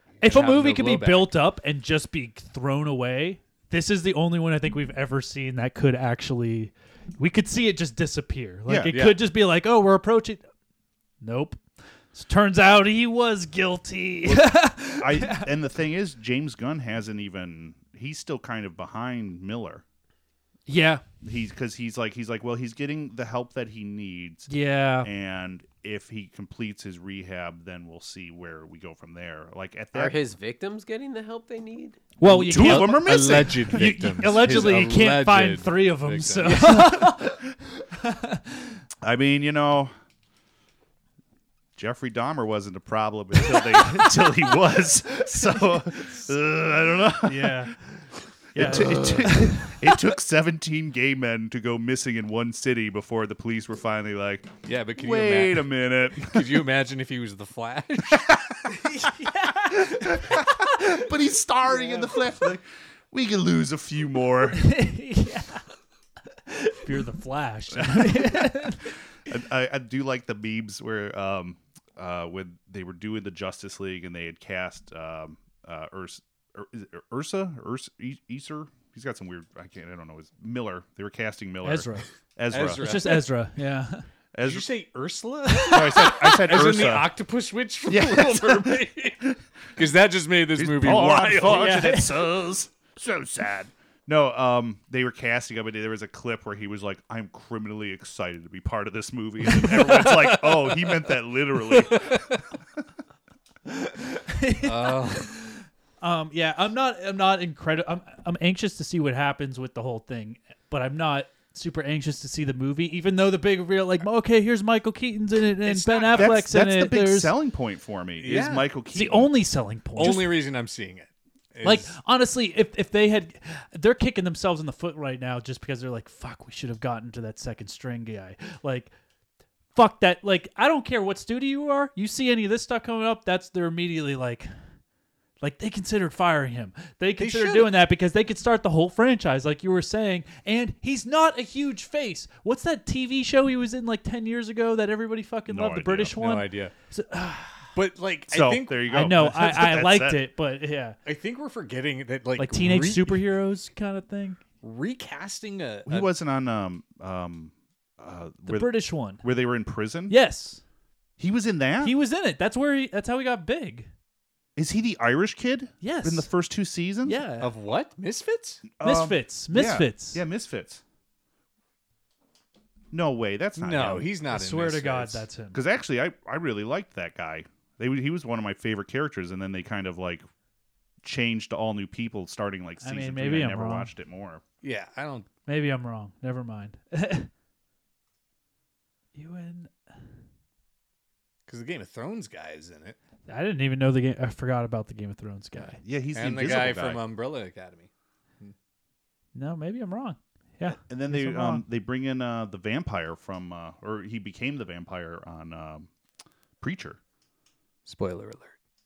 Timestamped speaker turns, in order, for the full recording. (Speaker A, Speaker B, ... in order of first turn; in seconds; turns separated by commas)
Speaker A: 0.2-10.4, Speaker B: 0.2-1.3, Speaker C: 8.7-8.9, Speaker B: 8.9-9.2, Speaker A: 11.2-11.6, Speaker A: 12.1-15.5, Speaker C: 14.2-19.8, Speaker A: 20.7-21.0, Speaker C: 21.2-24.5, Speaker A: 24.5-25.1, Speaker C: 25.0-30.2, Speaker D: 29.9-32.0, Speaker A: 32.2-37.5, Speaker B: 32.2-37.1, Speaker C: 32.3-34.0, Speaker A: 38.0-38.8, Speaker C: 39.0-39.9, Speaker C: 41.8-47.7, Speaker A: 43.5-44.3, Speaker A: 45.2-46.1, Speaker A: 47.2-47.8, Speaker A: 48.5-50.0, Speaker C: 48.5-56.7, Speaker B: 54.6-55.7, Speaker B: 56.2-58.5, Speaker C: 58.1-58.6, Speaker A: 58.9-59.8, Speaker C: 59.7-64.7, Speaker A: 64.5-65.6, Speaker A: 66.5-68.9, Speaker C: 67.7-83.1, Speaker A: 81.6-82.1, Speaker B: 82.5-83.2, Speaker A: 82.8-84.0, Speaker C: 84.3-84.7, Speaker B: 84.4-89.2, Speaker C: 85.7-87.1, Speaker C: 87.9-89.4, Speaker B: 89.8-91.8, Speaker C: 90.5-102.4, Speaker A: 91.4-92.2, Speaker B: 99.6-101.1, Speaker B: 101.7-102.4, Speaker A: 103.7-117.3, Speaker B: 104.6-105.3, Speaker C: 115.7-119.3, Speaker B: 116.0-116.3, Speaker B: 118.2-118.7, Speaker A: 118.9-120.4, Speaker B: 120.0-121.9, Speaker A: 121.6-128.9, Speaker A: 129.7-134.5, Speaker A: 135.4-147.7, Speaker B: 137.2-137.7, Speaker C: 145.5-146.2, Speaker B: 146.2-146.7, Speaker B: 147.7-149.0, Speaker C: 148.3-150.3, Speaker A: 148.9-151.0, Speaker B: 151.0-153.2, Speaker A: 152.3-154.4, Speaker B: 154.6-156.1, Speaker C: 155.9-160.2, Speaker A: 158.4-159.2, Speaker A: 160.1-160.6, Speaker C: 161.2-161.9, Speaker A: 161.8-163.9, Speaker C: 164.6-167.2, Speaker A: 165.8-166.3, Speaker A: 167.0-167.5, Speaker B: 167.4-168.6, Speaker C: 168.8-170.8, Speaker A: 168.8-170.2, Speaker C: 172.9-174.1, Speaker B: 173.6-175.2, Speaker A: 174.3-175.6, Speaker C: 175.5-180.2, Speaker C: 181.0-184.4, Speaker A: 182.8-183.9, Speaker B: 184.6-185.3, Speaker A: 185.5-187.3, Speaker A: 189.1-189.7, Speaker B: 191.5-193.0, Speaker A: 193.3-195.8, Speaker C: 195.8-197.0, Speaker B: 196.1-197.9, Speaker A: 199.3-201.6, Speaker C: 200.9-205.9, Speaker C: 206.6-207.0, Speaker B: 207.8-208.6